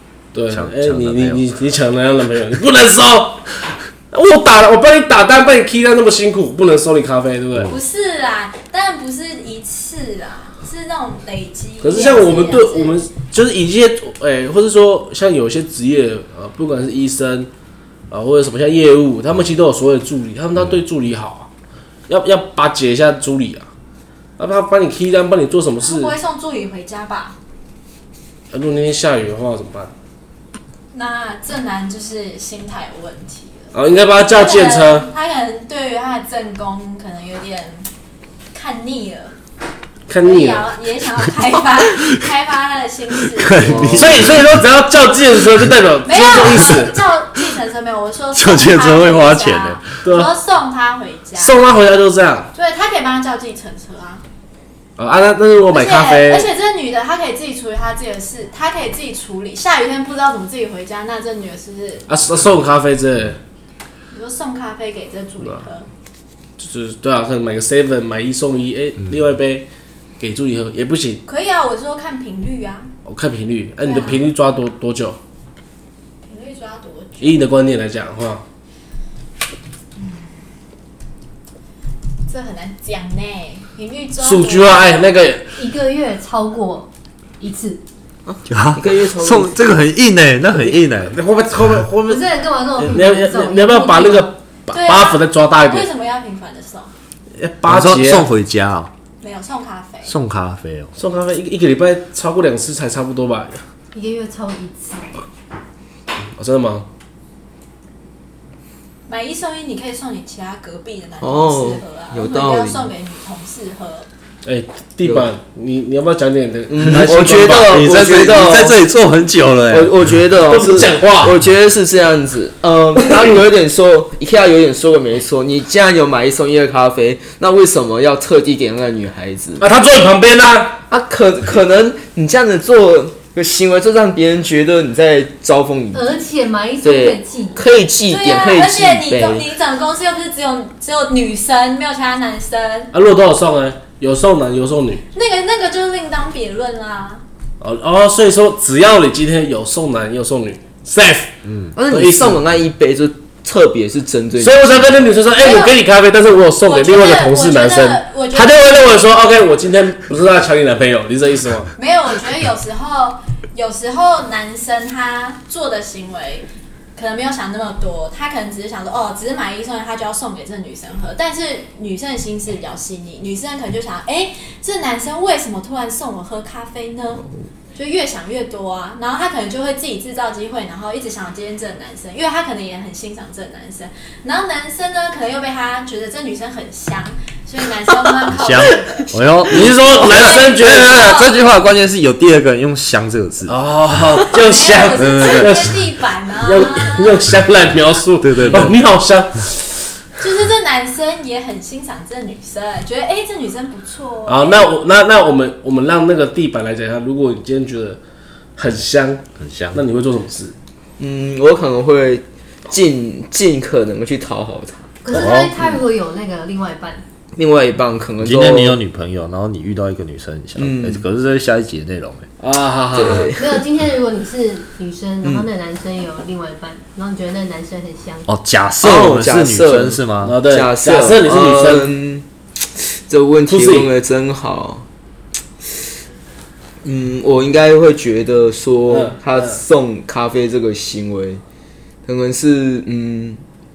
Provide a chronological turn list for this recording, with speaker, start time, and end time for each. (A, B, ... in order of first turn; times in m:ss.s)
0:00.3-0:03.5 A
0:00.5-0:01.4 B
0:04.1-0:07.7 A
0:07.7-0:13.0 C
0:11.8-0:17.5 A
0:18.1-0:21.5 A
0:22.1-0:23.7 A
0:24.4-0:26.1 A
0:25.8-0:27.4 C
0:28.5-0:29.9 A
0:30.9-0:33.7 C
0:33.7-0:35.1 A
0:34.3-0:37.9 C
0:38.5-0:39.4 C
0:40.1-0:40.7 A
0:40.2-0:44.1 C
0:43.3-0:44.6 B
0:43.6-0:44.0 D
0:43.9-0:46.9 A
0:46.0-0:51.6 C
0:48.3-0:49.8 B
0:50.0-0:50.3 A
0:51.4-0:52.5 A
0:52.5-0:54.2 C
0:55.0-0:56.5 A
0:55.7-1:02.1 C
1:02.1-1:03.4 A
1:04.1-1:05.9 C
1:06.6-1:09.7 A
1:10.2-1:11.2 A
1:11.2-1:12.9 C
1:13.0-1:15.2 A
1:13.8-1:14.2 C
1:16.2-1:17.5 C
1:17.2-1:18.4 A
1:20.0-1:20.4 C
1:22.3-1:25.2 C
1:24.2-1:25.5 A
1:25.5-1:27.8 E
1:28.3-1:29.5 D
1:28.4-1:31.2 B
1:31.0-1:32.2 A
1:32.1-1:34.3 E
1:32.8-1:35.8 A
1:34.7-1:36.9 C
1:37.4-1:38.3 A
1:37.7-1:38.9 B
1:39.2-1:40.1 C
1:40.0-1:40.9 B
1:41.0-1:43.6 A
1:43.9-1:45.2 E
1:46.4-1:46.9 A
1:49.1-1:54.1 C
1:51.2-1:52.9 D
1:54.4-1:57.8 A
1:55.0-1:55.3 D
1:56.7-1:58.8 D
1:57.4-2:00.1 B
1:59.7-2:09.6 D
2:00.4-2:01.4 A
2:09.6-2:10.8 A
2:10.9-2:16.2 D
2:15.9-2:17.6 E
2:16.8-2:19.4 D
2:18.1-2:22.9 C
2:22.9-2:25.0 A
2:25.1-2:27.2 C
2:27.6-2:31.4 A
2:31.4-2:31.7 B
2:31.7-2:35.0 D
2:31.9-2:32.4 A
2:34.4-2:41.7 A
2:35.3-2:35.8 C
2:36.6-2:39.1 C
2:41.8-2:57.2 C
2:57.7-3:09.1 C
3:08.3-3:14.0 B
3:09.5-3:11.2 A
3:09.9-3:11.3 C
3:13.5-3:15.8 A
3:14.3-3:17.2 C
3:15.0-3:15.7 B
3:16.4-3:20.0 A
3:18.2-3:18.7 B
3:20.2-3:24.7 C
3:24.3-3:28.0 A
3:28.6-3:29.2 A
3:29.4-3:29.8 B
3:29.7-3:30.5 A
3:31.0-3:35.4 D
3:35.0-3:37.0 E
3:35.1-3:35.6 B
3:37.3-3:38.8 D
3:38.2-3:42.3 B
3:40.6-3:41.0 D
3:42.4-3:43.3 A
3:42.9-3:43.6 D
3:43.4-3:48.3 E
3:48.2-3:50.4 B
3:48.8-3:52.2 D
3:50.2-3:51.9 A
3:52.8-3:54.8 D
3:53.5-3:53.9 A
3:56.8-4:01.4 D
3:58.9-3:59.6 A
4:02.0-4:03.4 D